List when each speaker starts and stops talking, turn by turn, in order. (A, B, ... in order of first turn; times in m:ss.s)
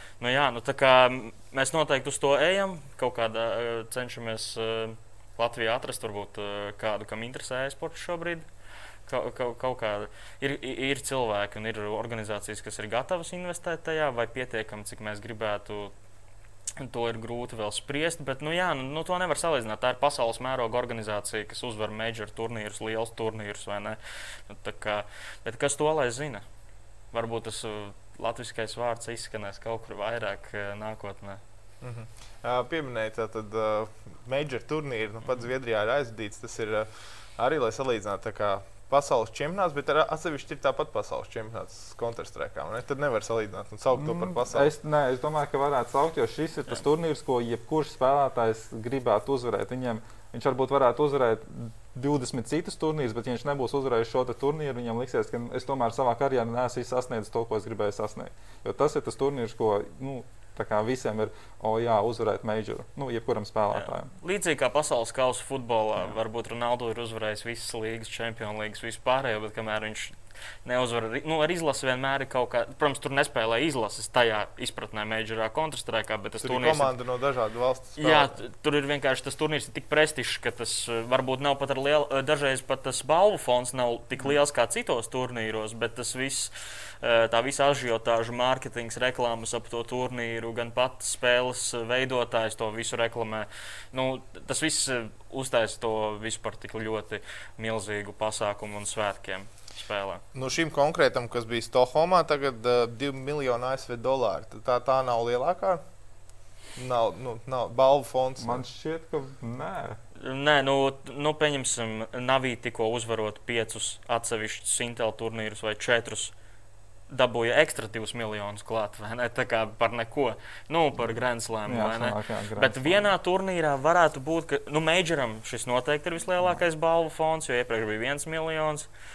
0:00.2-0:08.5 A
0:09.1-0:15.9 A
0:16.8-0:26.4 A
0:27.1-0:31.4 A
0:31.8-0:44.7 B
0:43.9-1:04.1 C
1:03.7-1:16.9 A
1:16.4-1:18.4 B
1:18.0-1:40.2 A
1:40.3-1:45.8 B
1:46.8-1:48.6 B
1:48.4-1:50.0 C
1:50.2-1:56.3 A
1:57.1-2:08.9 A
2:01.7-2:03.1 C